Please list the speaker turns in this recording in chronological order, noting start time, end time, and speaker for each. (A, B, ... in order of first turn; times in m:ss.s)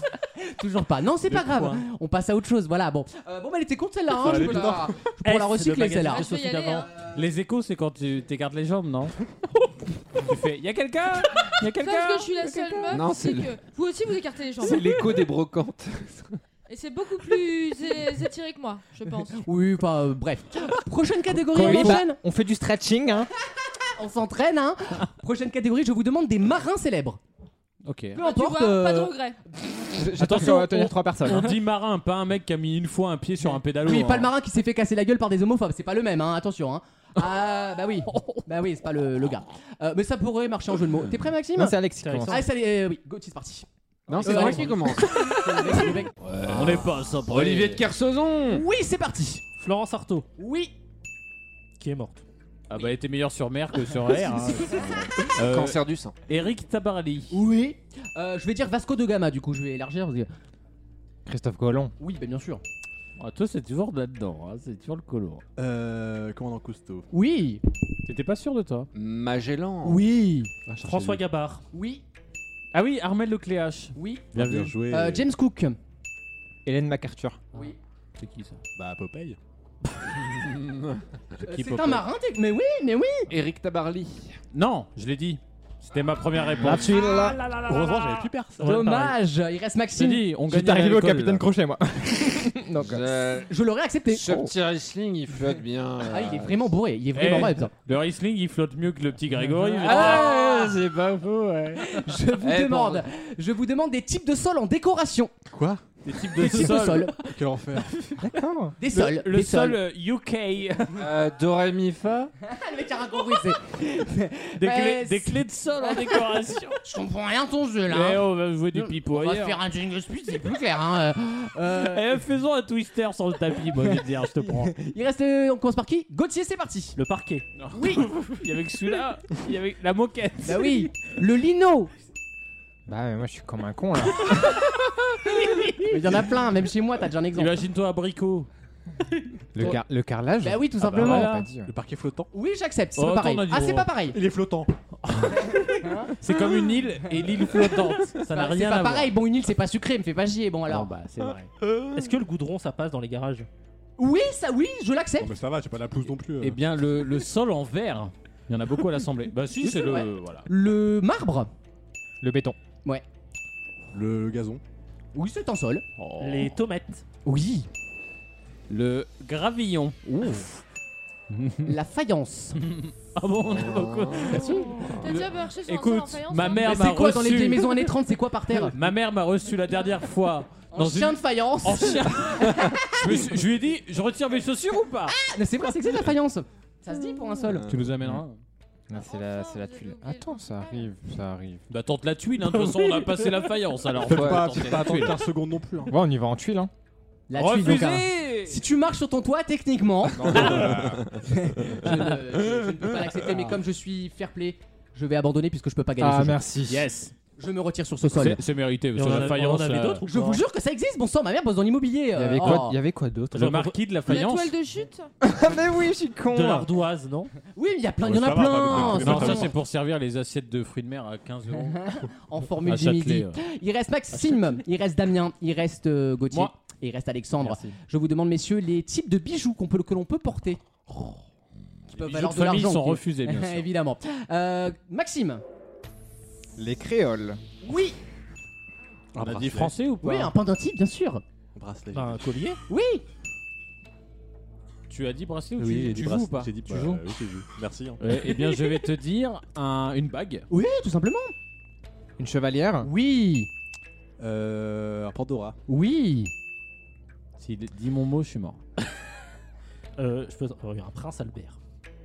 0:00.4-0:06.3 A
0:01.3-0:01.8 B
0:04.2-0:05.1 C
0:05.2-0:06.9 D
0:06.0-0:06.9 E
0:07.0-0:09.2 B
0:10.2-0:12.9 B
0:11.8-0:15.0 E
0:12.9-0:13.5 F
0:14.6-0:16.3 F
0:16.7-0:19.5 E
0:19.4-0:22.2 A
0:21.5-0:23.3 G
0:21.6-0:22.0 B
0:23.7-0:27.2 A
0:27.8-0:28.2 B
0:28.1-0:29.1 A
0:28.2-0:29.4 E
0:29.9-0:31.5 G
0:30.2-0:34.3 B
0:33.8-0:43.6 A
0:41.5-0:42.4 G
0:41.9-0:42.5 D
0:44.1-0:45.4 F
0:44.1-0:44.7 B
0:44.2-0:46.8 A
0:46.2-0:48.6 F
0:46.5-0:47.8 B
0:48.5-0:49.5 A
0:49.6-0:50.3 D
0:50.4-0:50.7 A
0:51.8-0:52.2 D
0:52.7-0:57.4 B
0:55.4-0:56.2 F
0:57.3-1:00.3 A
1:01.2-1:01.9 G
1:02.0-1:02.6 A
1:03.2-1:05.4 B
1:05.6-1:07.1 C
1:07.1-1:07.6 A
1:08.0-1:08.9 B
1:08.9-1:10.0 F
1:09.8-1:10.5 A
1:10.7-1:11.2 C
1:10.8-1:11.6 D
1:11.7-1:12.0 A
1:12.7-1:13.9 B
1:14.0-1:15.8 A
1:14.3-1:15.3 C
1:16.6-1:17.4 G
1:18.2-1:18.6 B
1:18.8-1:19.4 C
1:20.3-1:21.0 F
1:21.4-1:22.0 B
1:21.4-1:23.3 A
1:23.3-1:24.4 F
1:24.5-1:28.3 B
1:26.6-1:27.4 G
1:27.6-1:28.7 C
1:28.6-1:30.3 A
1:28.6-1:29.1 D
1:29.9-1:31.5 B
1:30.5-1:33.1 G
1:32.8-1:33.5 F
1:33.5-1:34.5 A
1:34.1-1:36.7 F
1:36.0-1:37.7 A
1:37.1-1:40.6 B
1:39.8-1:41.7 F
1:39.8-1:40.7 A
1:41.4-1:42.0 B
1:41.8-1:45.3 A
1:42.4-1:43.0 F
1:45.5-1:48.0 C
1:46.0-1:47.3 B
1:46.3-1:47.2 A
1:47.9-1:48.2 B
1:48.2-1:48.7 G
1:48.8-1:49.8 A
1:48.9-1:51.0 B
1:51.0-1:52.3 F
1:52.4-2:02.2 A
1:54.6-1:56.8 B
1:57.9-1:59.6 B
2:01.7-2:04.7 B
2:03.7-2:07.0 A
2:07.0-2:07.4 D
2:07.6-2:10.9 B
2:07.7-2:08.1 A
2:10.4-2:11.9 A
2:12.9-2:14.6 G
2:15.8-2:17.6 A
2:17.3-2:18.5 B
2:19.5-2:21.7 G
2:20.4-2:21.4 A
2:20.8-2:21.5 B
2:21.6-2:22.3 C
2:22.3-2:24.2 A
2:23.0-2:23.9 B
2:24.1-2:24.7 C
2:25.0-2:25.6 B
2:25.5-2:26.1 A
2:26.2-2:29.1 B
2:28.3-2:30.9 A
2:30.7-2:31.5 B
2:31.8-2:33.5 D
2:34.0-2:35.4 A
2:35.2-2:36.6 C
2:36.4-2:40.5 B
2:39.6-2:41.5 A
2:42.2-2:42.6 G
2:43.9-2:44.6 C
2:45.1-2:45.8 A
2:46.0-2:46.6 B
2:46.2-2:47.0 D
2:47.2-2:47.7 A
2:48.7-2:50.6 B
2:51.3-2:51.7 B
2:51.6-2:52.6 A
2:52.6-2:57.9 B
2:53.5-2:55.1 F
2:54.8-2:56.8 E
2:56.4-2:58.8 A
2:58.6-3:05.2 B
3:00.7-3:03.4 A
3:05.1-3:07.7 A
3:07.5-3:07.8 F
3:07.6-3:08.4 B
3:08.9-3:11.6 G
3:09.0-3:10.9 E
3:11.7-3:15.2 B
3:14.0-3:15.9 C
3:14.1-3:14.7 F
3:15.9-3:16.7 G
3:17.3-3:26.4 A
3:17.3-3:18.6 B
3:20.2-3:21.1 C
3:20.4-3:20.7 B
3:26.0-3:26.8 G
3:26.7-3:27.1 B
3:27.4-3:28.4 A
3:28.1-3:30.0 B
3:28.9-3:30.4 D
3:30.0-3:32.8 A
3:32.1-3:33.7 G
3:33.3-3:34.5 B
3:34.1-3:35.1 E
3:35.2-3:36.7 G
3:36.3-3:37.3 D
3:37.5-3:39.5 A
3:38.0-3:39.5 C
3:38.8-3:41.9 B
3:41.7-3:50.6 A
3:42.6-3:43.4 B
3:51.9-3:55.4 A
3:51.9-3:53.7 B
3:56.6-3:57.4 G
3:57.6-3:58.0 A
3:59.1-3:59.8 C
3:59.2-4:00.3 B
4:00.0-4:01.2 A
4:01.5-4:02.2 C
4:01.9-4:02.6 D
4:02.7-4:03.0 A
4:04.9-4:07.0 B
4:05.6-4:08.0 C
4:08.0-4:10.5 B
4:10.5-4:11.3 A
4:12.2-4:12.9 G
4:12.8-4:13.5 A
4:14.2-4:15.6 C
4:15.7-4:16.3 A
4:17.4-4:18.6 B
4:20.0-4:21.6 D